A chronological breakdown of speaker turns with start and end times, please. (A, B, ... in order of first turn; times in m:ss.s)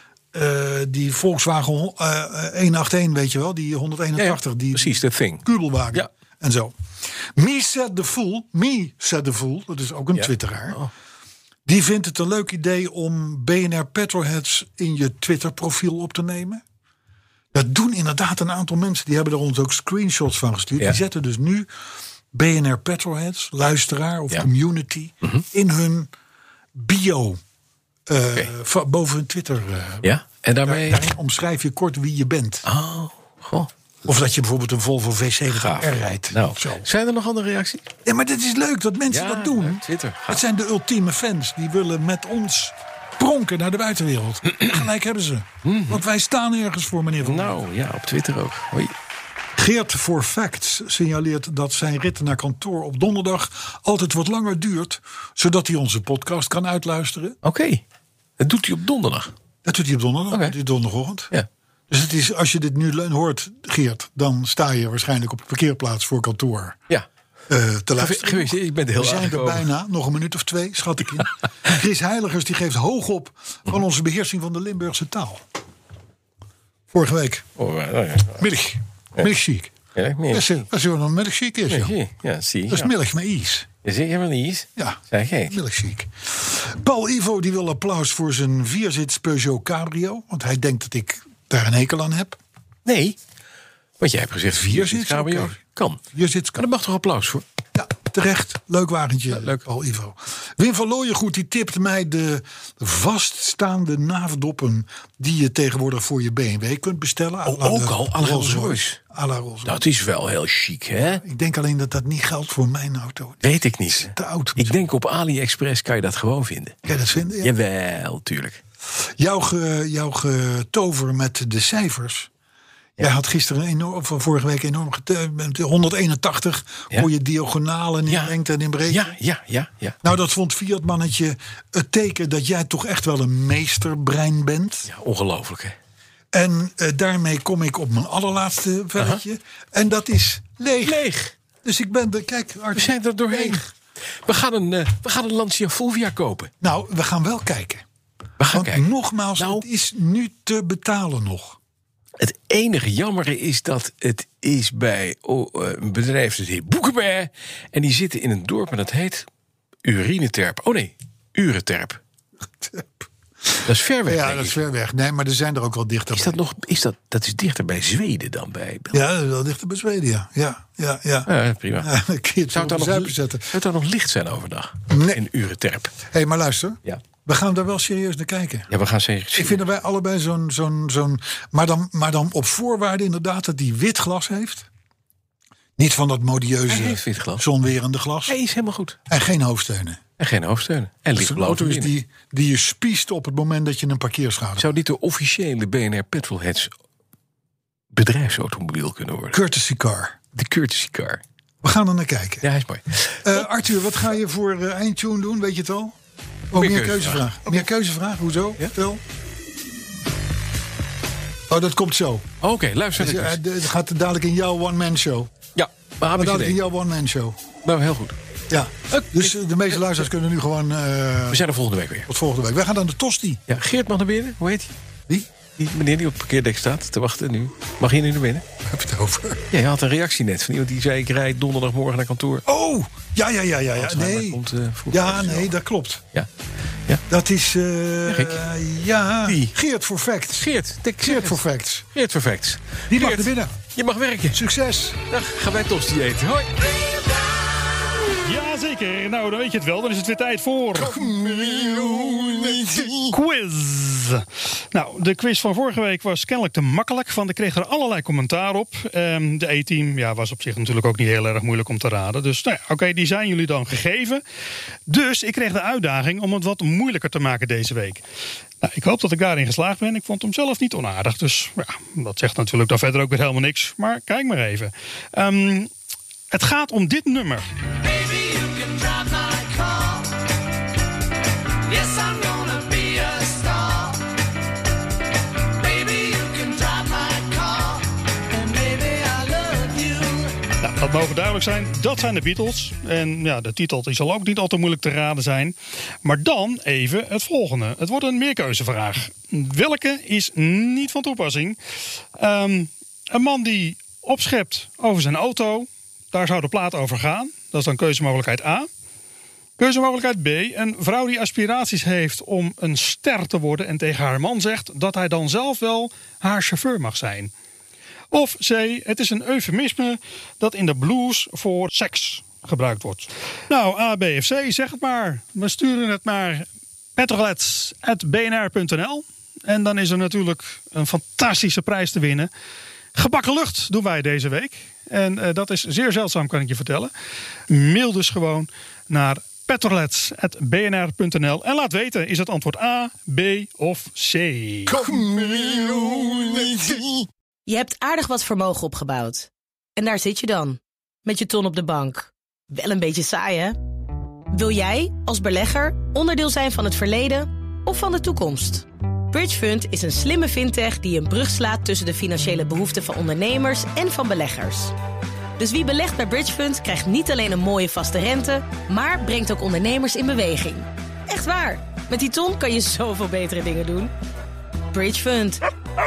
0:00.3-0:10.8 A
0:04.2-0:06.1 B
0:10.1-0:10.9 B
0:11.7-0:16.6 A
0:17.5-0:21.7 A
0:22.3-0:26.1 A
0:26.7-0:27.4 A
0:28.1-0:30.1 A
0:30.0-0:31.1 B
0:30.7-0:32.7 A
0:32.7-0:33.7 B
0:34.0-0:36.9 A
0:35.5-0:37.9 B
0:38.0-0:47.6 A
0:39.1-0:40.4 B
0:45.6-0:46.0 B
0:47.2-0:48.9 B
0:49.6-0:57.4 A
0:57.4-0:57.8 B
0:58.4-0:59.3 B
0:59.6-1:01.3 A
1:01.9-1:06.8 A
1:07.5-1:15.4 A
1:08.0-1:09.7 B
1:16.9-1:17.5 A
1:17.6-1:18.5 B
1:18.4-1:19.8 A
1:20.0-1:20.6 B
1:20.3-1:21.9 A
1:21.7-1:22.9 B
1:22.7-1:23.7 A
1:23.8-1:25.6 B
1:24.8-1:32.4 A
1:32.8-1:33.2 B
1:34.0-1:36.0 B
1:34.5-1:35.6 A
1:36.1-1:36.6 A
1:36.6-1:37.4 B
1:37.8-1:49.8 A
1:39.3-1:39.6 B
1:47.4-1:49.0 B
1:49.6-1:51.2 B
1:51.2-1:54.8 A
1:53.4-1:56.8 B
1:56.9-1:57.5 A
1:57.4-1:58.6 B
1:59.0-2:02.3 A
2:03.0-2:09.1 A
2:08.1-2:08.4 B
2:08.9-2:10.0 B
2:10.0-2:14.9 A
2:14.9-2:15.8 B
2:16.3-2:21.0 A
2:19.0-2:19.2 B
2:20.8-2:21.3 B
2:21.6-2:23.7 A
2:22.8-2:23.7 B
2:24.2-2:26.5 B
2:26.6-2:27.8 A
2:28.4-2:28.8 B
2:28.5-2:31.6 A
2:29.4-2:29.7 B
2:32.2-2:39.3 B
2:39.8-2:42.0 B
2:42.6-2:46.4 A
2:43.6-2:44.6 B
2:46.1-2:49.0 B
2:48.9-2:53.6 A
2:51.3-2:51.9 B
2:52.5-2:56.0 B
2:54.9-2:55.2 A
2:56.0-2:58.7 A
2:58.7-2:59.6 B
2:59.4-3:04.7 A
3:05.8-3:08.4 A
3:06.7-3:07.4 B
3:08.3-3:09.0 B
3:09.1-3:10.0 A
3:10.2-3:11.9 B
3:11.2-3:14.7 A
3:14.6-3:16.7 B
3:17.9-3:19.4 B
3:19.3-3:20.2 A
3:20.4-3:21.2 B
3:21.6-3:22.5 A
3:22.4-3:23.5 B
3:23.2-3:26.0 A
3:26.5-3:29.0 A
3:26.6-3:27.4 B
3:31.5-3:32.3 A
3:32.4-3:33.4 B
3:33.0-3:35.3 A
3:35.6-3:36.6 B
3:36.2-3:37.4 A
3:37.6-3:38.2 B
3:38.5-3:41.4 A
3:38.9-3:40.0 B
3:41.3-3:42.1 B
3:42.1-3:43.4 A
3:43.5-3:44.7 B
3:45.6-3:48.4 B
3:48.6-3:49.4 A
3:49.5-3:52.4 B
3:52.4-3:56.0 A
3:53.8-3:55.5 B
3:57.1-4:00.5 A
3:58.1-3:58.4 B
3:59.3-3:59.6 B
4:00.3-4:04.4 B
4:01.0-4:01.9 A
4:02.9-4:03.6 A
4:04.3-4:05.1 A
4:05.1-4:08.1 B
4:08.2-4:11.0 C
4:10.8-4:12.9 A
4:10.9-4:13.1 B
4:13.1-4:24.2 C
4:24.9-4:28.0 C
4:28.6-4:35.7 C
4:36.3-4:37.5 C
4:37.9-4:40.0 D
4:41.7-4:44.0 D
4:45.6-4:50.4 D
4:50.6-5:01.6 C
5:02.2-5:08.7 C
5:09.6-5:17.3 C
5:18.1-5:32.3 C
5:33.0-5:36.9 C
5:37.5-5:44.8 C
5:44.7-5:46.9 A
5:47.5-5:53.6 E
5:54.3-6:04.7 E
6:05.4-6:13.9 E
6:14.7-6:15.4 E